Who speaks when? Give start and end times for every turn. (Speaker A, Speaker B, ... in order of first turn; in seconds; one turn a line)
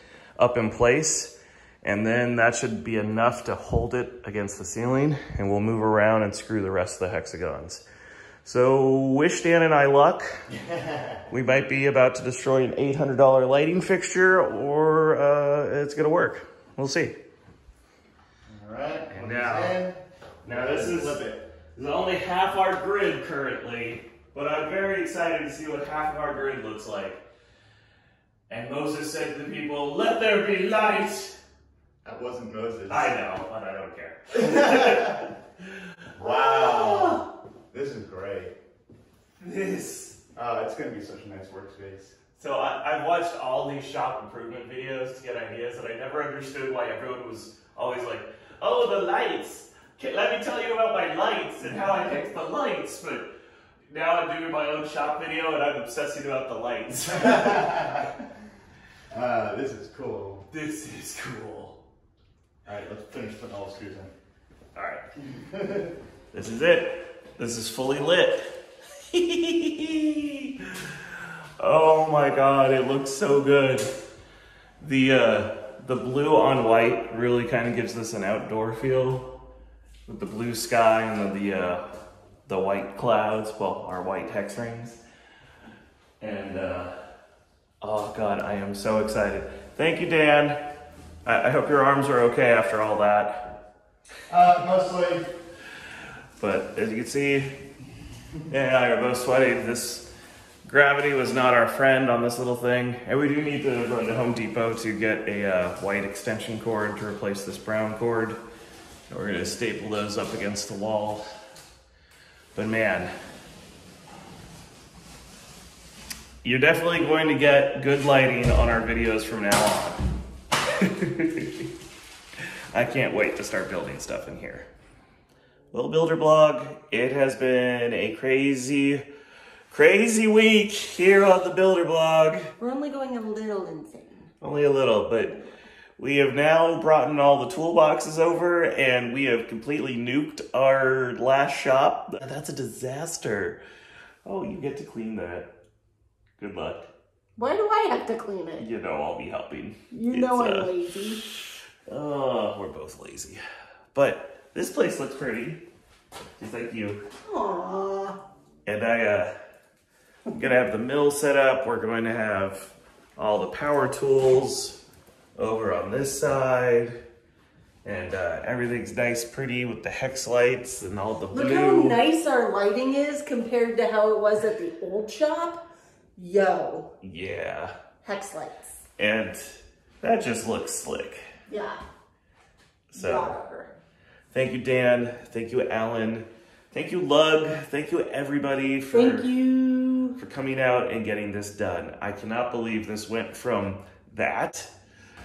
Speaker A: 0.4-7.8
Speaker A: 8.4-10.3
Speaker B: 10.5-11.2
Speaker A: 11.3-17.2
Speaker B: 18.5-21.4
Speaker A: 19.1-19.8
Speaker A: 20.4-27.2
Speaker A: 28.5-31.4
Speaker B: 32.0-33.1
Speaker A: 32.9-35.4
Speaker B: 34.4-35.1
Speaker B: 36.2-38.5
Speaker A: 36.9-37.2
Speaker A: 39.4-40.2
Speaker B: 40.4-42.1
Speaker A: 42.4-53.3
Speaker A: 53.9-58.1
Speaker B: 57.2-58.0
Speaker B: 59.1-60.5
Speaker A: 60.5-61.8
Speaker B: 62.6-64.1
Speaker A: 64.8-65.0
Speaker B: 65.3-65.9
Speaker A: 66.3-73.9
Speaker A: 74.8-79.3
Speaker A: 80.1-81.9
Speaker A: 82.5-85.0
Speaker A: 86.2-87.0
Speaker A: 87.8-90.7
Speaker A: 91.2-93.5
Speaker B: 94.3-95.3
Speaker A: 96.4-97.6
Speaker A: 98.5-100.1
Speaker A: 100.7-108.4
Speaker A: 109.1-111.2
Speaker A: 112.5-113.1
Speaker A: 116.4-120.0
Speaker A: 120.7-121.7
Speaker A: 122.7-124.7
Speaker A: 125.7-129.1
Speaker A: 129.7-132.5
Speaker C: 132.6-134.3
Speaker A: 134.4-135.4
Speaker A: 136.0-143.6
Speaker A: 144.2-145.6
Speaker A: 146.4-146.9
Speaker C: 147.4-148.7
Speaker A: 148.6-150.7
Speaker C: 149.9-151.2
Speaker A: 151.9-153.4
Speaker A: 153.9-155.7
Speaker A: 156.4-157.0
Speaker C: 157.2-158.2
Speaker A: 158.7-159.3
Speaker A: 160.3-164.8
Speaker A: 165.4-167.0
Speaker A: 167.8-172.0
Speaker C: 171.3-175.6
Speaker C: 176.2-176.9
Speaker A: 177.0-177.7
Speaker C: 178.0-178.8
Speaker A: 179.0-181.2
Speaker C: 181.5-181.8
Speaker A: 182.9-183.4
Speaker C: 182.9-183.7
Speaker A: 184.3-189.3
Speaker C: 188.9-190.2
Speaker A: 190.2-194.7